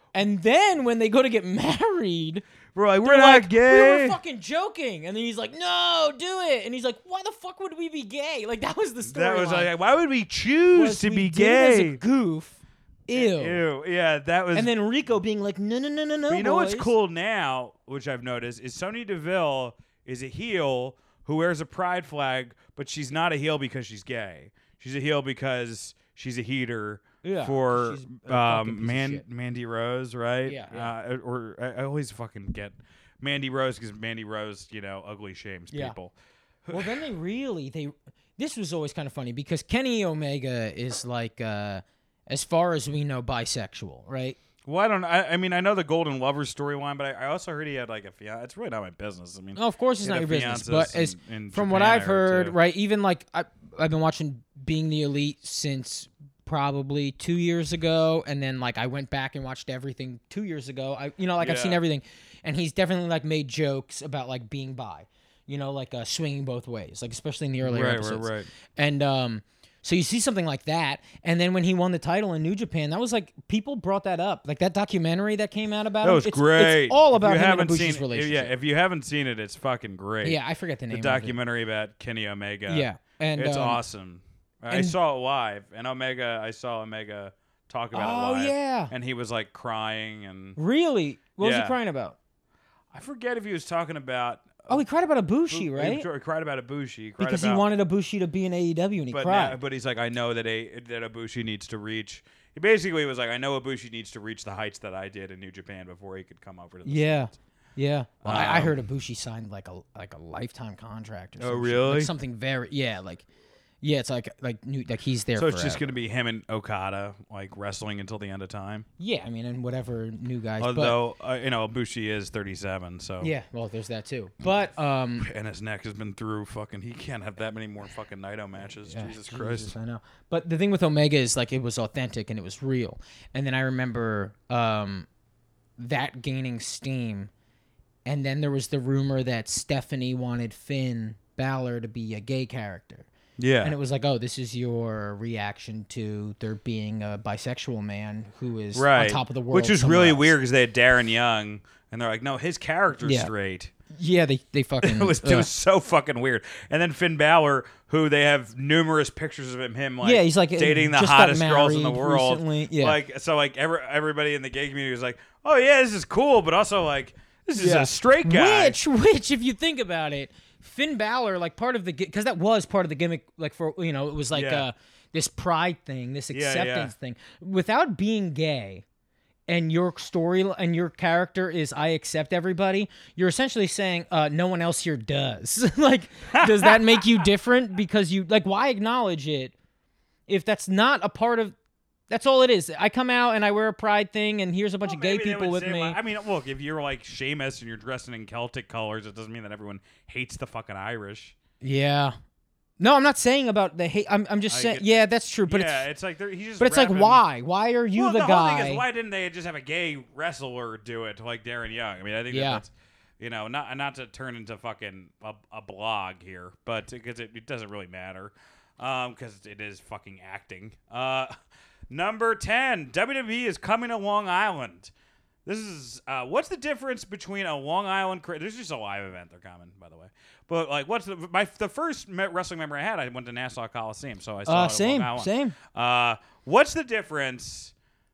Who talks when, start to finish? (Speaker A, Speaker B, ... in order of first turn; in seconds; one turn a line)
Speaker A: 0.1-2.4
Speaker B: 2.7-4.2
Speaker A: 3.0-9.7
Speaker B: 9.0-12.0
Speaker A: 10.7-13.6
Speaker B: 13.1-14.7
Speaker A: 14.6-16.9
Speaker B: 16.3-37.0
Speaker A: 27.2-29.2
Speaker A: 30.4-30.9
Speaker A: 36.7-44.4
Speaker B: 44.6-52.6
Speaker A: 49.6-78.5
Speaker B: 61.4-61.8
Speaker B: 67.6-68.5
Speaker B: 76.0-80.4
Speaker A: 80.2-81.3
Speaker B: 80.9-90.6
Speaker A: 82.7-83.8
Speaker A: 84.7-85.0
Speaker A: 87.9-88.9
Speaker A: 90.6-92.2
Speaker B: 91.4-91.8
Speaker B: 92.9-94.8
Speaker A: 94.7-96.1
Speaker B: 95.5-97.7
Speaker A: 97.2-99.6
Speaker B: 99.1-107.3
Speaker A: 106.8-113.3
Speaker B: 108.2-108.8
Speaker B: 111.4-112.1
Speaker A: 113.8-115.8
Speaker B: 115.4-118.9
Speaker A: 119.0-121.0
Speaker B: 120.6-123.3
Speaker A: 123.2-125.3
Speaker B: 125.2-129.7
Speaker A: 128.8-135.1
Speaker A: 135.8-137.3
Speaker A: 138.1-143.1
Speaker B: 143.4-143.7
Speaker A: 143.6-150.3
Speaker B: 148.7-153.7
Speaker A: 153.0-153.3
Speaker A: 153.9-155.5
Speaker B: 154.8-168.8
Speaker A: 160.0-163.0
Speaker A: 167.6-178.8
Speaker B: 174.3-174.6
Speaker B: 176.3-176.9
Speaker A: 179.5-189.5
Speaker B: 186.3-187.2
Speaker A: 190.3-191.6
Speaker A: 192.1-196.0
Speaker B: 194.8-201.3
Speaker A: 201.6-202.2
Speaker A: 202.8-205.8
Speaker B: 204.5-207.2
Speaker A: 206.6-208.8
Speaker B: 207.9-221.3
Speaker A: 212.3-212.6
Speaker B: 221.9-224.9
Speaker B: 225.4-237.7
Speaker A: 234.4-235.6